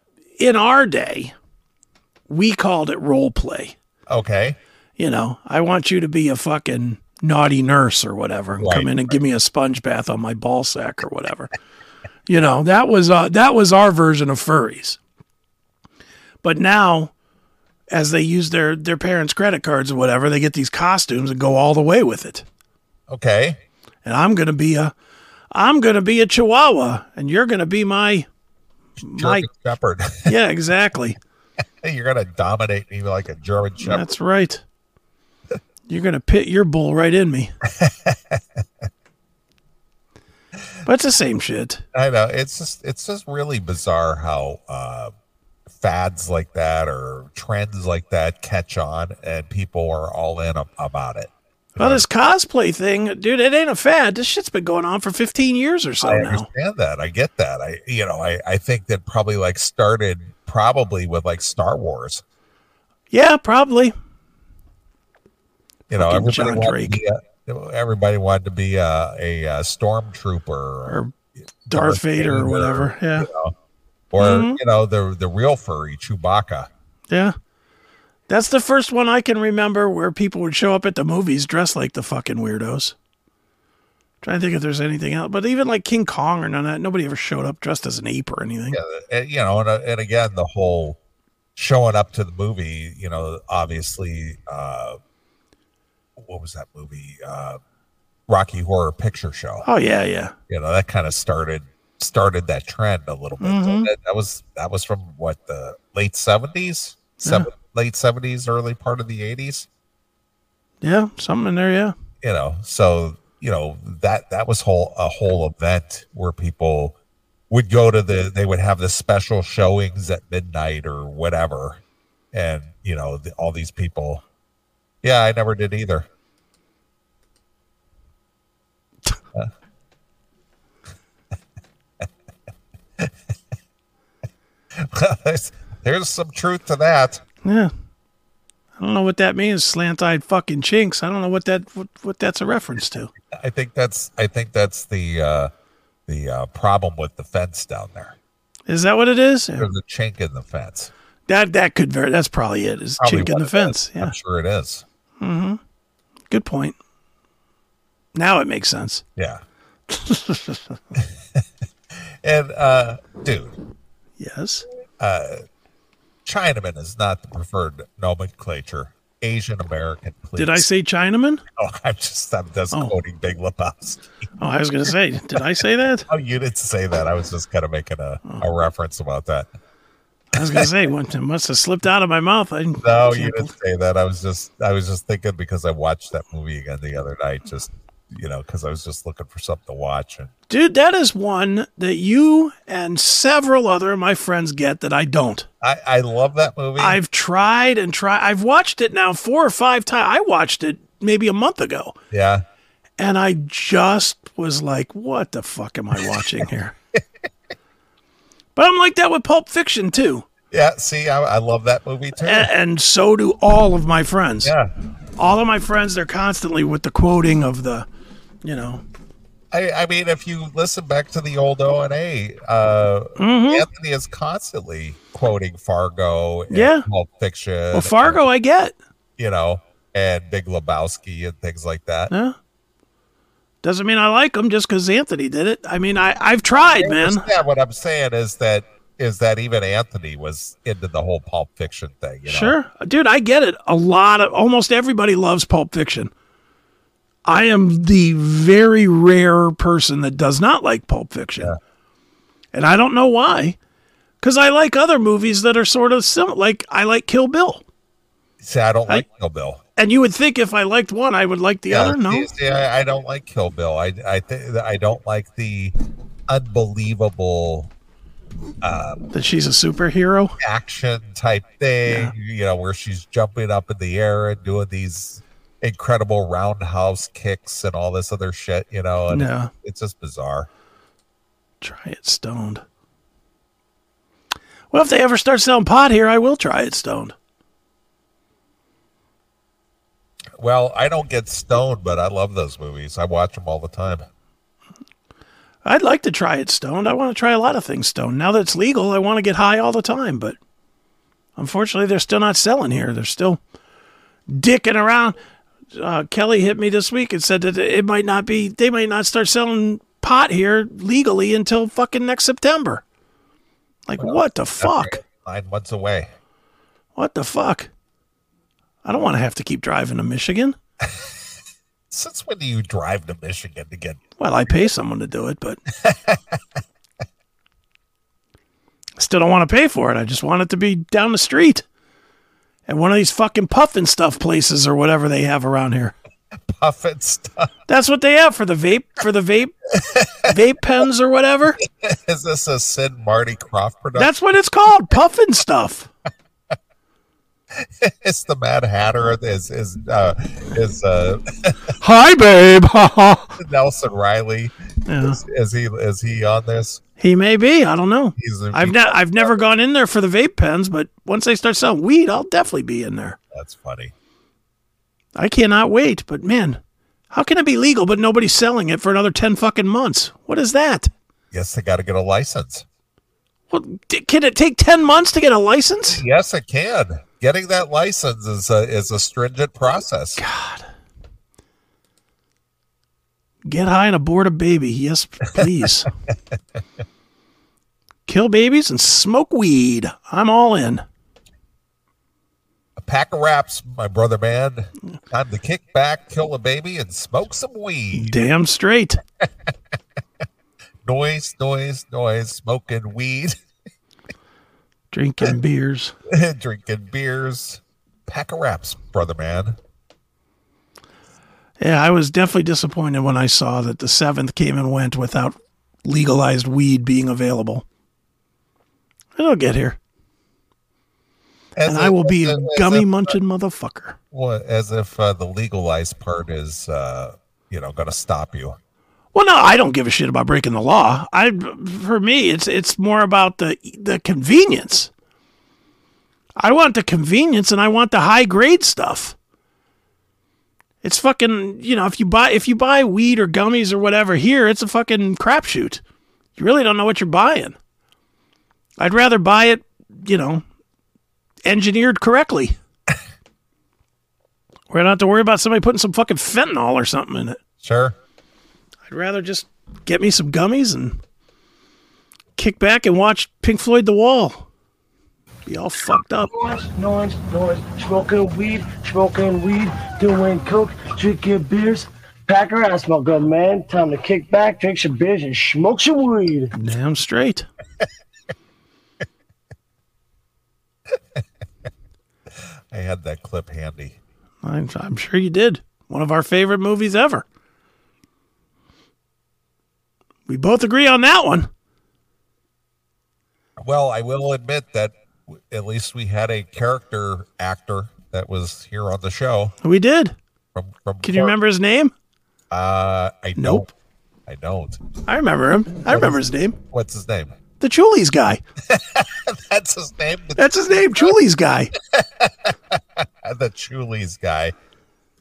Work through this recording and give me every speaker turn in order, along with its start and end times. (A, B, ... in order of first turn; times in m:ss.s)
0:00.4-0:01.3 A
0:02.3-0:03.8 A
0:04.1-0:04.6 B
0:05.0-0:11.5 A
0:08.6-0:09.2 B
0:12.3-0:15.0 A
0:16.4-0:17.1 A
0:17.9-0:22.4 A
0:23.1-0:23.6 B
0:24.0-0:24.9 A
0:25.5-0:28.3 A
0:29.0-0:29.5 A
0:29.0-0:30.3 B
0:30.2-0:31.2 A
0:31.8-0:34.1 B
0:33.8-0:34.6 A
0:35.9-0:37.5 A
0:37.7-0:38.6 B
0:40.8-0:41.8 A
0:41.9-0:45.1 B
0:45.7-0:52.0 B
0:51.8-0:56.5 A
0:56.0-1:02.2 B
1:03.1-1:03.9 A
1:05.9-1:11.0 B
1:06.0-1:07.0 A
1:11.7-1:13.3 A
1:11.7-1:13.5 B
1:14.1-1:16.7 B
1:14.2-1:14.6 A
1:17.1-1:17.4 A
1:18.3-1:23.0 A
1:24.2-1:28.8 A
1:28.7-1:31.0 B
1:31.6-1:35.0 B
1:36.2-1:37.6 B
1:38.3-1:39.7 B
1:39.6-1:40.3 A
1:40.5-1:49.7 B
1:43.4-1:43.9 A
1:47.2-1:47.5 A
1:50.8-1:51.9 A
1:52.2-1:57.0 B
1:57.5-2:01.8 B
2:02.3-2:04.2 B
2:05.0-2:06.1 B
2:14.8-2:17.2 B
2:17.4-2:17.7 A
2:18.8-2:23.1 A
2:23.3-2:25.5 B
2:26.1-2:28.2 B
2:28.7-2:29.7 A
2:29.6-2:30.9 B
2:31.3-2:34.2 A
2:33.0-2:34.8 B
2:35.2-2:35.6 A
2:36.3-2:36.8 A
2:38.2-2:39.0 A
2:39.2-2:39.4 B
2:39.9-2:40.8 A
2:41.0-2:41.4 B
2:42.2-2:43.6 B
2:44.2-2:44.7 A
2:45.0-2:45.4 B
2:46.3-2:50.7 B
2:50.4-2:51.4 A
2:51.6-2:54.2 B
2:54.4-2:56.1 A
2:56.1-2:59.5 B
3:00.3-3:00.7 B
3:00.3-3:03.5 A
3:02.8-3:10.3 B
3:10.5-3:15.5 A
3:15.6-3:17.0 B
3:16.8-3:22.0 A
3:22.1-3:22.4 B
3:23.0-3:26.7 A
3:28.6-3:30.3 A
3:30.5-3:32.5 B
3:32.2-3:34.5 A
3:34.4-3:34.7 B
3:35.2-3:37.9 A
3:38.4-3:38.8 A
3:39.5-3:48.2 B
3:43.2-3:43.7 A
3:46.5-3:46.8 A
3:47.7-3:48.8 A
3:49.2-3:52.1 B
3:52.1-3:52.4 A
3:53.6-3:57.2 A
3:56.8-4:02.6 B
4:02.3-4:06.1 A
4:07.3-4:11.5 A
4:12.5-4:13.6 A
4:14.2-4:17.6 A
4:18.4-4:19.6 B
4:19.8-4:22.3 A
4:21.7-4:25.8 B
4:26.3-4:27.7 B
4:28.6-4:29.0 B
4:29.1-4:30.4 A
4:30.4-4:40.5 B
4:31.9-4:32.1 A
4:39.1-4:39.5 A
4:41.6-4:42.6 A
4:44.7-4:47.1 A
4:50.4-4:54.1 B
4:55.6-5:00.4 A
5:01.4-5:03.4 A
5:04.3-5:05.2 A
5:05.7-5:12.8 A
5:13.9-5:15.0 A
5:14.0-5:16.1 B
5:17.0-5:17.7 A
5:18.8-5:20.6 A
5:20.8-5:21.1 B
5:21.9-5:24.7 B
5:24.2-5:25.6 A
5:25.7-5:26.4 B
5:29.0-5:31.6 A
5:32.7-5:35.9 A
5:36.5-5:37.5 B
5:37.7-5:39.5 A
5:39.8-5:40.3 B
5:40.2-5:41.6 A
5:41.7-5:44.1 B
5:44.0-5:45.9 A
5:47.6-5:51.8 B
5:51.8-5:53.3 A
5:53.4-5:56.8 B
5:54.9-5:55.2 A
5:57.0-6:03.2 A
5:58.2-5:59.4 B
6:03.3-6:03.9 B
6:05.2-6:06.6 A
6:07.1-6:10.9 A
6:11.3-6:12.6 B
6:13.5-6:16.0 A
6:15.9-6:20.2 B
6:20.2-6:20.7 A
6:23.4-6:25.9 A
6:28.1-6:30.8 A
6:32.8-6:38.2 B
6:37.9-6:39.0 A
6:39.2-6:39.5 B
6:40.8-6:43.4 B
6:44.9-6:45.9 A
6:46.1-6:49.6 B
6:51.6-6:57.6 A
6:59.2-6:59.8 A
7:01.6-7:03.2 B
7:01.7-7:04.0 A
7:04.1-7:08.6 B
7:09.1-7:14.9 A
7:16.4-7:19.2 A
7:20.8-7:25.8 A
7:26.4-7:27.6 A
7:28.8-7:30.4 A
7:31.4-7:32.6 A
7:34.7-7:37.4 A
7:37.6-7:38.0 B
7:38.9-7:41.0 A
7:42.4-7:44.4 A
7:45.5-7:46.3 A
7:46.2-7:56.5 C
7:56.5-7:57.5 A
8:02.7-8:04.0 B
8:04.4-8:07.2 A
8:10.3-8:11.5 A
8:13.6-8:19.6 B
8:19.6-8:20.2 A
8:20.6-8:21.4 B
8:21.0-8:21.9 A
8:22.5-8:23.7 B
8:23.4-8:23.7 A
8:24.3-8:24.8 B
8:25.1-8:26.6 A
8:25.8-8:27.4 B
8:27.6-8:28.4 A
8:28.7-8:31.1 B
8:30.4-8:31.7 A
8:31.9-8:34.5 B